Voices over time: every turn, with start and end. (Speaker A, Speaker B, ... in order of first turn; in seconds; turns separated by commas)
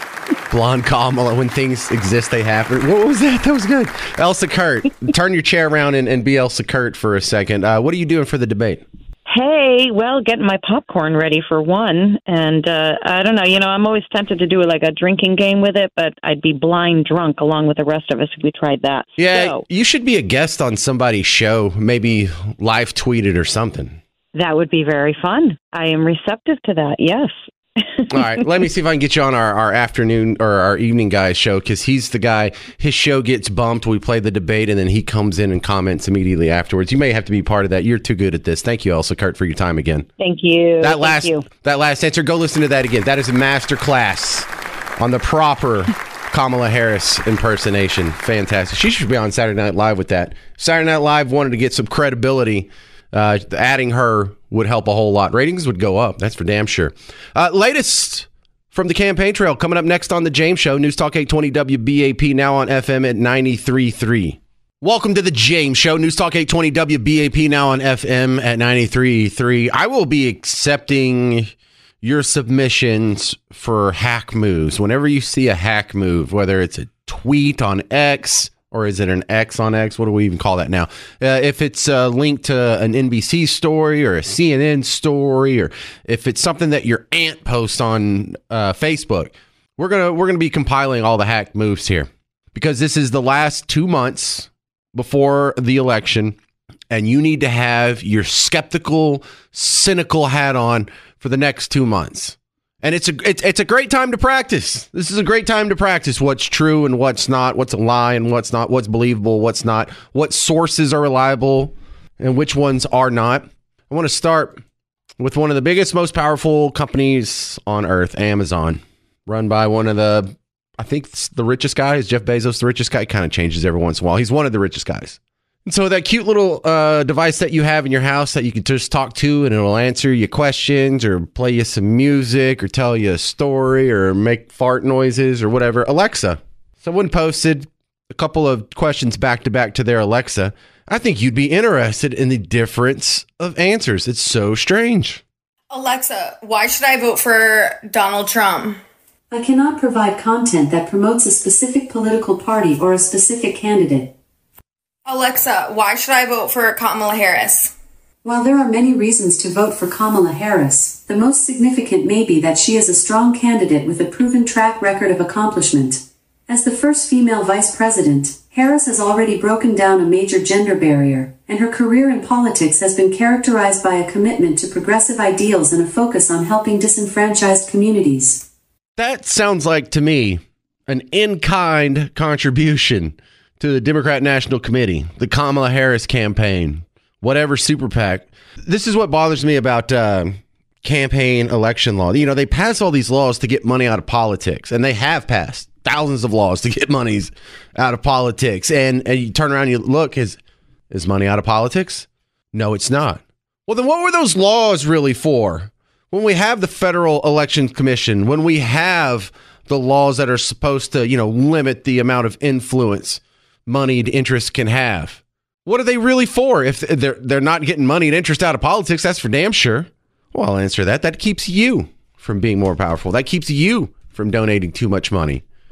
Speaker A: 0.5-8.8, Speaker B: 9.3-19.6, Speaker A: 19.2-24.0, Speaker B: 24.4-28.2, Speaker A: 28.1-40.1, Speaker B: 40.2-41.5, Speaker A: 40.8-44.5, Speaker A: 45.0-71.5, Speaker A: 72.0-96.4, Speaker A: 96.9-114.6, Speaker A: 115.2-145.2, Speaker C: 145.7-148.8, Speaker D: 149.3-154.1, Speaker C: 155.1-157.7, Speaker D: 158.2-178.5, Speaker A: 179.0-200.4, Speaker A: 200.9-225.4